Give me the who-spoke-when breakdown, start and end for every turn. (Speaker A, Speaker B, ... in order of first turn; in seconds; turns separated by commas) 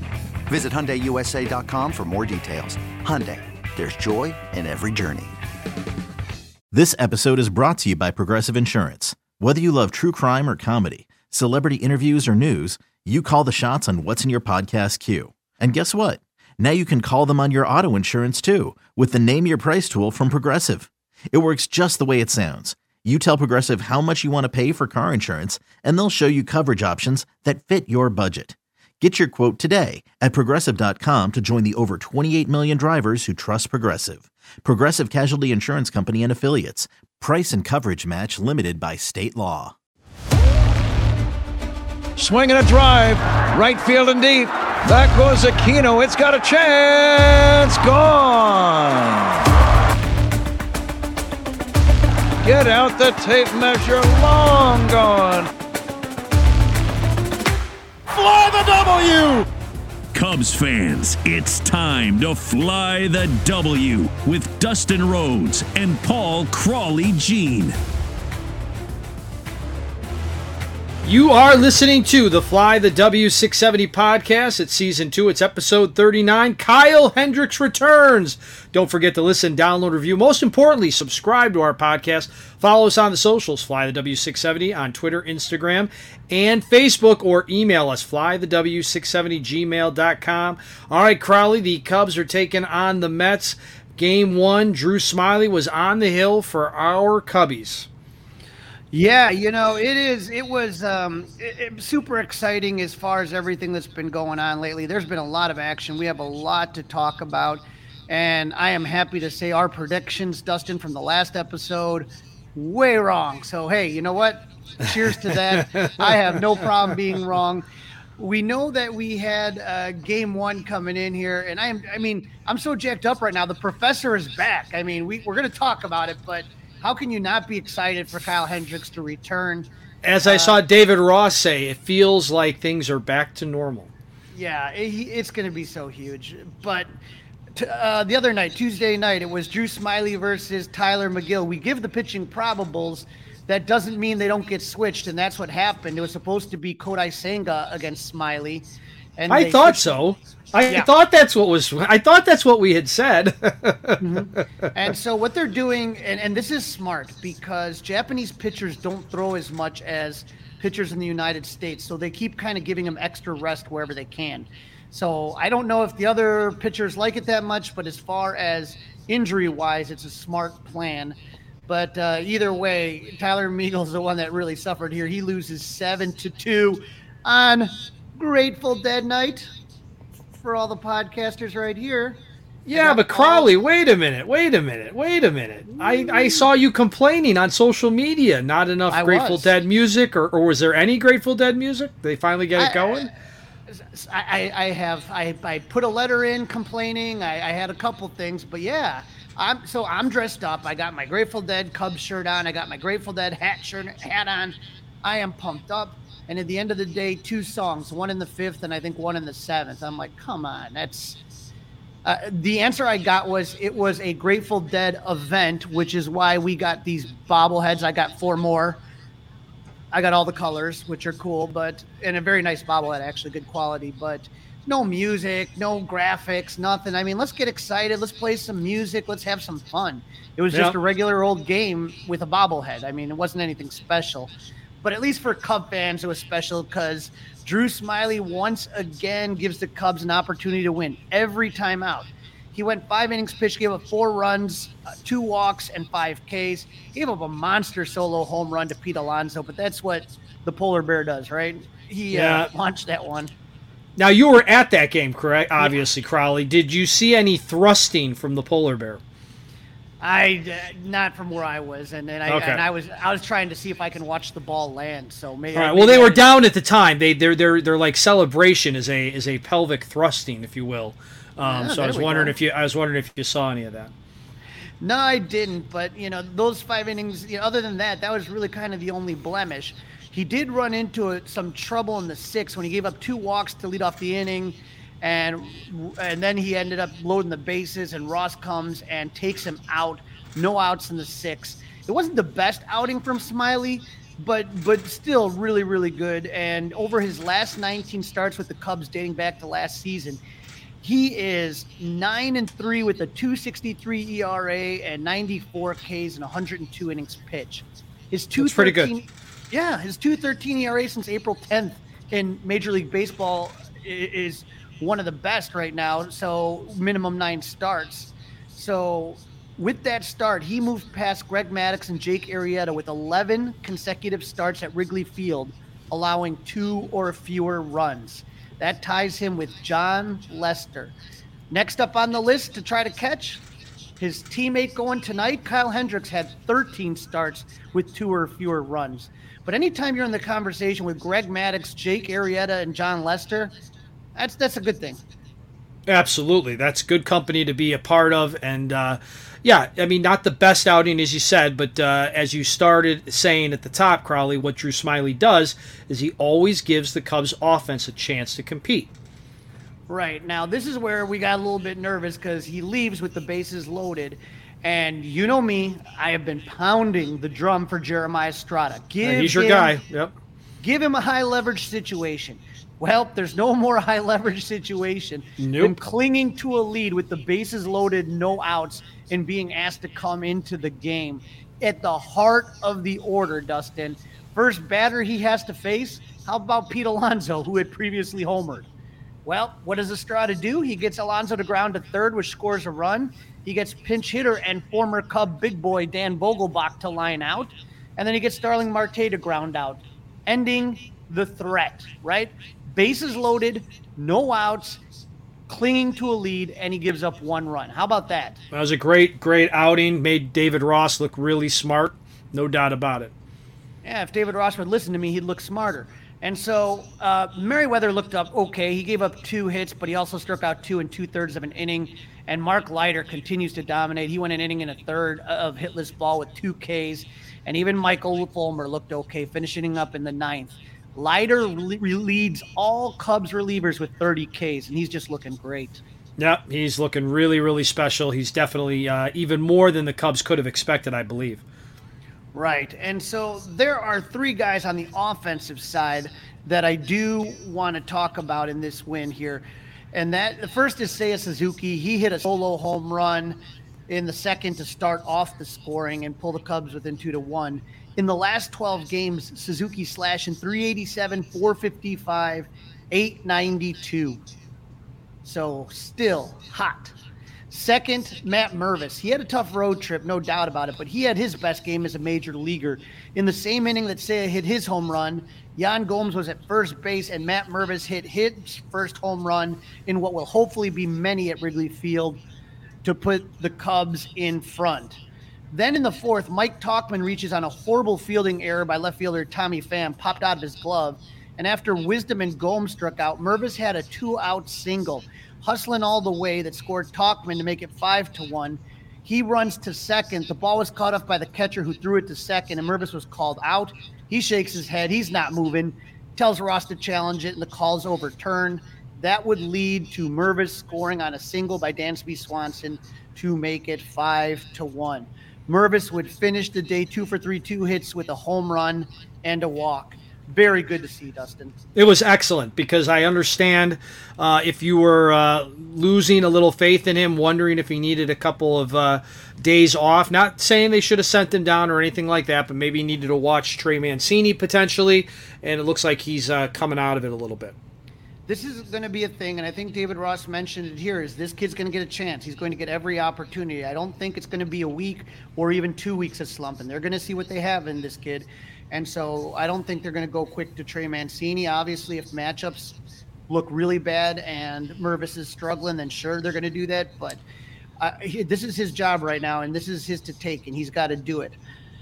Speaker A: 0.5-5.3, Speaker B: 6.7-39.7, Speaker C: 42.2-49.4, Speaker C: 52.4-55.5, Speaker C: 58.1-59.5, Speaker D: 60.1-67.7, Speaker E: 71.0-97.9, Speaker F: 98.9-117.6, Speaker E: 115.6-116.2, Speaker F: 118.2-129.7, Speaker E: 130.0-133.9, Speaker F: 130.2-130.6, Speaker F: 134.3-136.9, Speaker F: 137.5-150.0, Speaker E: 149.3-154.4, Speaker F: 154.0-171.2, Speaker F: 171.7-179.5, Speaker F: 180.4-182.2, Speaker E: 182.7-193.1, Speaker F: 182.7-183.5, Speaker F: 185.7-186.5, Speaker F: 188.9-189.5, Speaker F: 192.6-193.1, Speaker F: 193.7-211.2, Speaker F: 212.0-218.8, Speaker F: 219.9-234.3, Speaker F: 234.8-253.3, Speaker E: 252.1-252.5, Speaker E: 254.0-259.0, Speaker F: 260.0-266.2, Speaker E: 262.3-262.6, Speaker E: 265.5-273.9, Speaker F: 271.4-272.3, Speaker F: 274.8-300.2, Speaker F: 300.8-330.9, Speaker E: 308.4-308.9, Speaker F: 331.5-333.4, Speaker F: 334.0-343.5, Speaker F: 344.1-345.0, Speaker E: 345.9-358.9, Speaker F: 359.9-369.7, Speaker E: 369.0-370.1, Speaker F: 370.6-388.7, Speaker E: 375.4-375.8, Speaker F: 389.2-404.8, Speaker F: 405.5-408.4, Speaker E: 408.5-413.1, Speaker F: 413.8-435.8, Speaker E: 436.2-441.4, Speaker F: 442.3-464.2, Speaker F: 465.2-466.9, Speaker F: 467.5-482.2, Speaker F: 482.8-485.0, Speaker F: 485.5-521.5, Speaker E: 521.7-537.5, Speaker F: 538.3-552.8, Speaker F: 553.3-557.2, Speaker F: 557.8-561.4